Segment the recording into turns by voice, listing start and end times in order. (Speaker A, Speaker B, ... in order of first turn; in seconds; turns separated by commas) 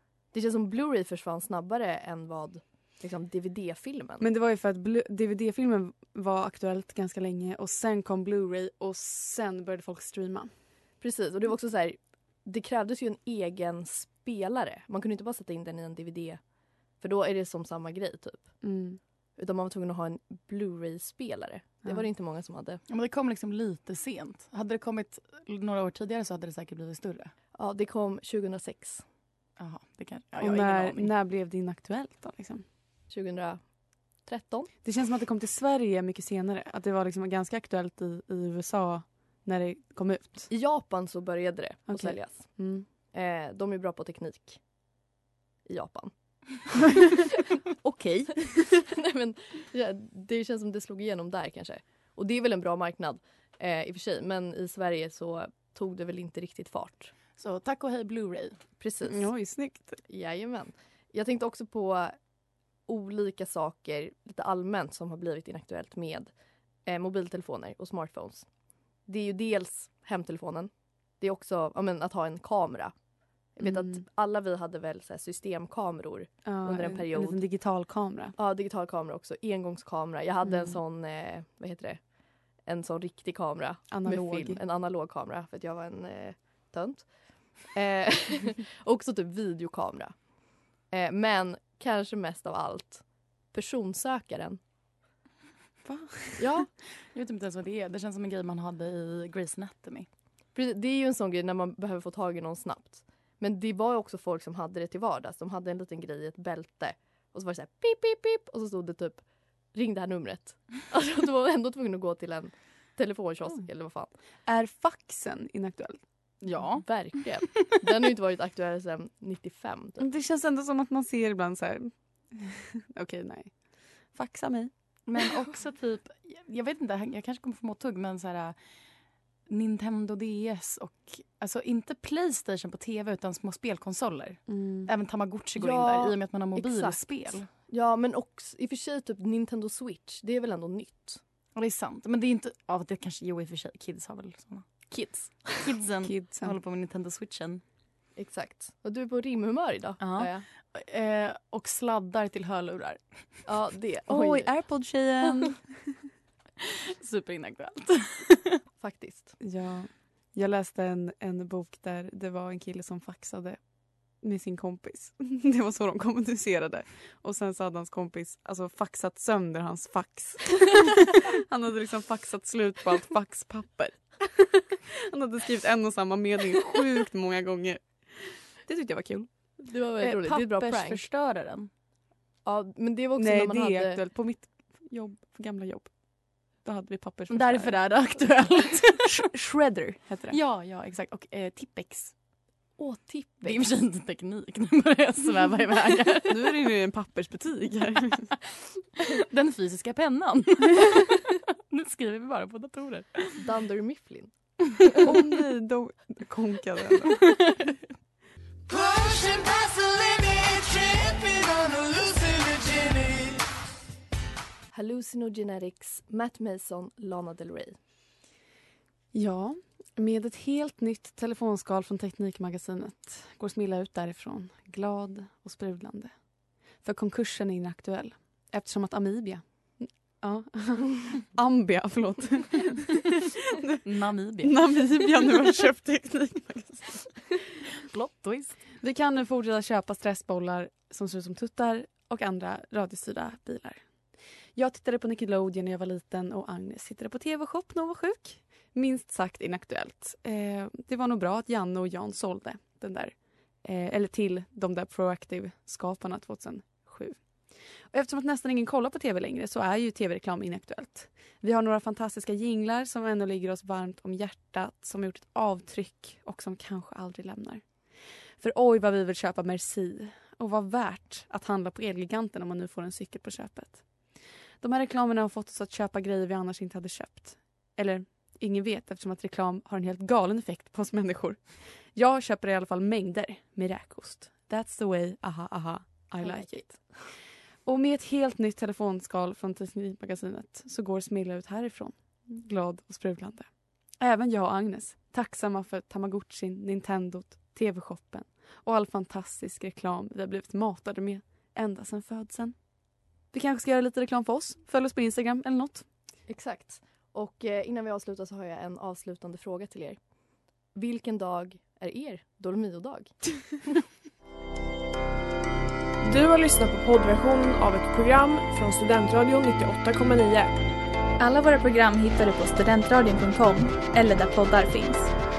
Speaker A: 0.3-4.3, Speaker B: 4.2-10.5, Speaker A: 11.0-16.4, Speaker A: 17.0-18.5, Speaker B: 18.6-19.0, Speaker A: 19.4-22.8, Speaker C: 22.9-27.3, Speaker A: 27.6-29.0, Speaker C: 29.6-31.1, Speaker B: 30.4-32.6, Speaker A: 33.1-33.6, Speaker A: 34.2-34.7, Speaker B: 34.8-40.5, Speaker A: 40.5-44.6, Speaker B: 41.9-42.9, Speaker A: 45.6-46.6, Speaker B: 47.9-48.6, Speaker A: 48.9-57.1, Speaker C: 57.4-58.6, Speaker A: 58.8-59.3, Speaker B: 59.1-60.0, Speaker A: 60.1-62.1, Speaker A: 62.9-66.3, Speaker A: 66.8-68.5, Speaker A: 69.1-72.9, Speaker A: 73.5-77.4, Speaker B: 73.6-74.0, Speaker B: 76.4-78.3, Speaker A: 78.4-82.0, Speaker B: 80.4-80.8, Speaker A: 82.6-90.3, Speaker B: 83.9-84.6, Speaker A: 90.9-94.6, Speaker B: 95.8-96.5, Speaker A: 96.4-96.7, Speaker C: 97.0-100.1, Speaker A: 100.5-114.1, Speaker B: 114.5-116.0, Speaker C: 116.4-117.4, Speaker A: 116.8-120.1, Speaker B: 120.0-124.7, Speaker C: 125.1-128.6, Speaker C: 129.5-137.5, Speaker B: 134.5-134.9, Speaker A: 135.6-141.2, Speaker C: 141.6-147.6, Speaker A: 144.9-145.6, Speaker B: 146.0-146.6, Speaker A: 148.2-150.4, Speaker C: 150.0-153.4, Speaker A: 153.4-154.9, Speaker B: 154.1-156.1, Speaker C: 157.0-158.6, Speaker A: 158.8-159.4, Speaker B: 159.4-163.6, Speaker B: 164.2-179.3, Speaker A: 179.6-181.0, Speaker C: 180.0-181.7, Speaker A: 182.4-184.0, Speaker B: 183.2-185.9, Speaker B: 186.6-188.0, Speaker C: 187.3-189.1, Speaker B: 189.1-190.4, Speaker C: 190.3-192.1, Speaker A: 192.8-193.7, Speaker C: 193.4-196.6, Speaker B: 196.3-198.4, Speaker C: 199.2-203.4, Speaker A: 203.4-204.3, Speaker B: 205.0-207.5, Speaker D: 208.7-213.4, Speaker A: 214.7-217.8, Speaker B: 219.1-226.2, Speaker B: 226.8-233.8, Speaker C: 233.8-234.9, Speaker B: 234.4-237.3, Speaker C: 237.8-238.7, Speaker B: 238.8-243.8, Speaker B: 244.6-257.2, Speaker B: 257.9-267.6, Speaker B: 268.4-273.9, Speaker B: 274.6-287.0, Speaker A: 286.2-287.1, Speaker B: 287.6-302.6, Speaker B: 303.3-305.9, Speaker A: 306.3-310.0, Speaker A: 310.7-313.6, Speaker E: 316.0-320.5, Speaker F: 321.2-325.1